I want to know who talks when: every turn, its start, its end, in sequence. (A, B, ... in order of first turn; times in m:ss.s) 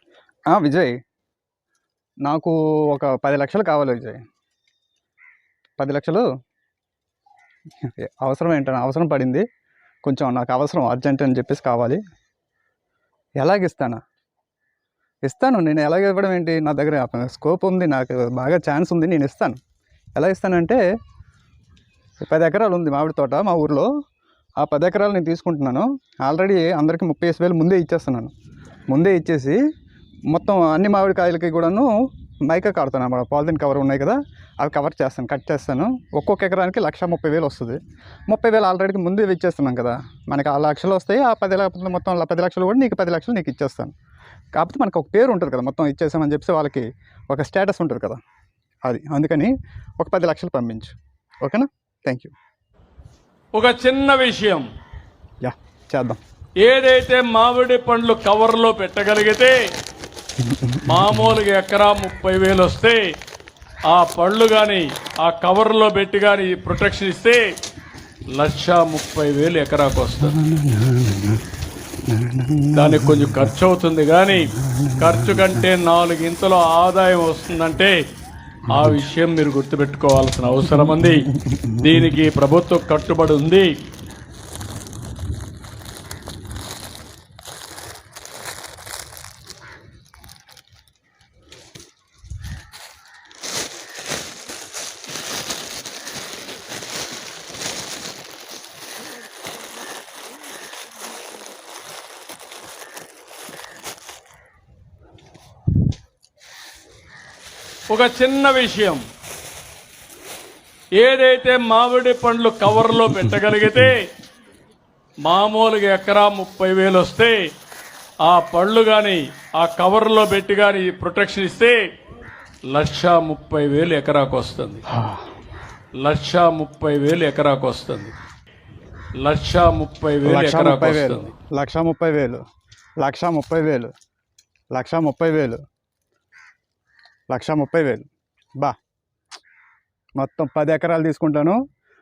0:00.5-0:00.9 A
0:02.2-0:04.2 A
0:05.8-0:06.3 A
0:07.8-0:09.4 A
0:10.0-0:12.0 A
0:13.4-0:14.0 A
0:15.2-0:19.6 A
0:20.2-0:20.8 A
0:22.2-0:23.9 A
0:24.6-0:28.3 A
0:28.9-0:29.6 A
0:30.3-0:31.9 A
0:32.5-0:37.8 A
0:38.3-0:43.9 A
0:44.6-0:48.2 A
0:48.8-0:52.3 A
0:53.5-0:54.6 B
0:55.4-0:56.2 A
0:56.6-0:59.6 B
1:00.4-1:01.4 A
1:00.8-1:03.1 B
1:03.9-1:07.5 B
1:08.3-1:10.4 B
1:10.2-1:11.4 A
1:12.1-1:13.5 A
1:12.7-1:18.0 B
1:14.5-1:15.6 A
1:18.7-1:21.2 B
1:20.7-1:22.1 A
1:21.8-1:23.7 B
1:47.9-1:49.0 B
1:51.0-1:54.1 B
1:52.9-1:53.9 A
1:55.2-1:57.4 B
1:58.2-2:01.9 B
2:02.7-2:04.8 B
2:04.9-2:05.2 A
2:06.0-2:08.1 B
2:09.2-2:11.3 B
2:10.2-2:12.4 A
2:13.0-2:13.9 A
2:14.7-2:15.6 A
2:17.3-2:18.1 A
2:20.2-2:21.6 A